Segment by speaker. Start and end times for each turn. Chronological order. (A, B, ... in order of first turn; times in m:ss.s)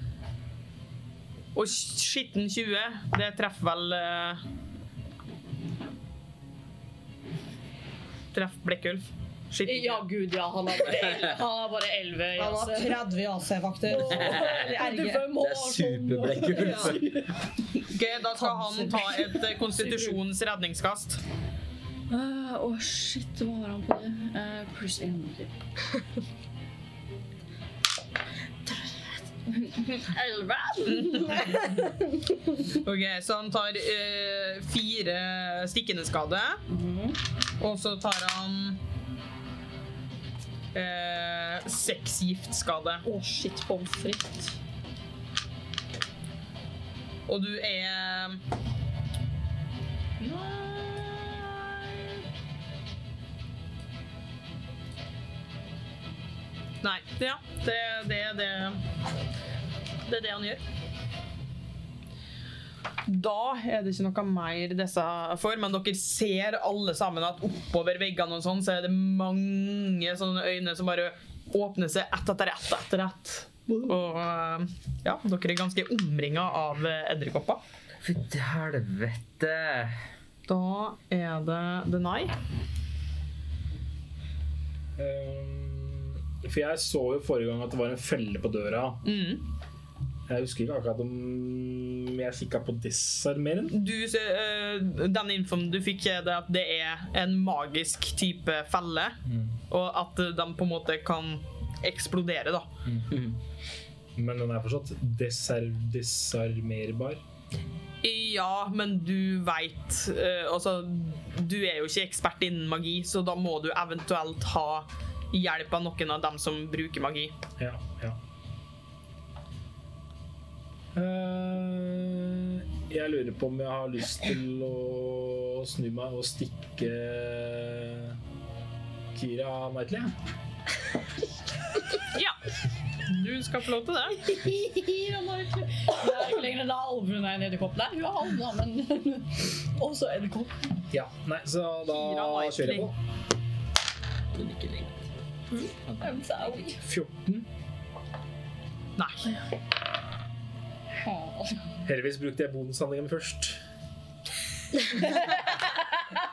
0:01.5-0:04.4 A
0:08.3-0:10.0 A
0:09.6-0:13.1 B
0:11.0-0:11.3 C
0:12.4-0:15.3 D
0:13.8-0:17.3 B
0:14.0-0:17.2 C
0:16.6-0:16.9 D
0:17.8-0:21.2 A
0:18.4-0:20.1 B
0:22.1-0:25.5 B
0:29.5-0:31.8 B
0:31.0-0:31.5 A
0:32.7-0:36.6 A
0:36.7-0:37.2 B
0:37.6-0:38.8 A
0:40.7-0:43.0 A
0:43.0-0:44.6 B
0:47.3-0:48.4 A
0:50.2-0:52.0 A
0:56.8-0:58.8 A
1:00.0-1:00.6 A
1:03.0-1:17.6 A
1:18.0-1:19.9 C
1:20.5-1:22.3 A
1:25.0-1:29.0 E
1:29.0-1:29.5 A
1:30.3-1:33.7 E
1:33.7-1:39.2 A
1:39.2-1:39.5 E
1:39.7-1:42.7 A
1:42.8-1:43.1 E
1:43.1-1:43.4 C
1:44.2-1:47.2 E
1:48.0-1:57.3 A
1:57.6-1:58.2 E
2:00.9-2:08.2 E
2:09.1-2:10.1 E
2:12.1-2:12.4 A
2:13.0-2:14.2 A
2:14.2-2:20.5 B
2:20.9-2:22.9 E
2:21.9-2:22.9 A
2:24.3-2:25.1 C
2:26.0-2:26.8 B
2:26.8-2:27.4 E
2:29.0-2:29.3 A
2:31.0-2:31.6 B
2:31.8-2:33.6 E
2:34.9-2:35.8 B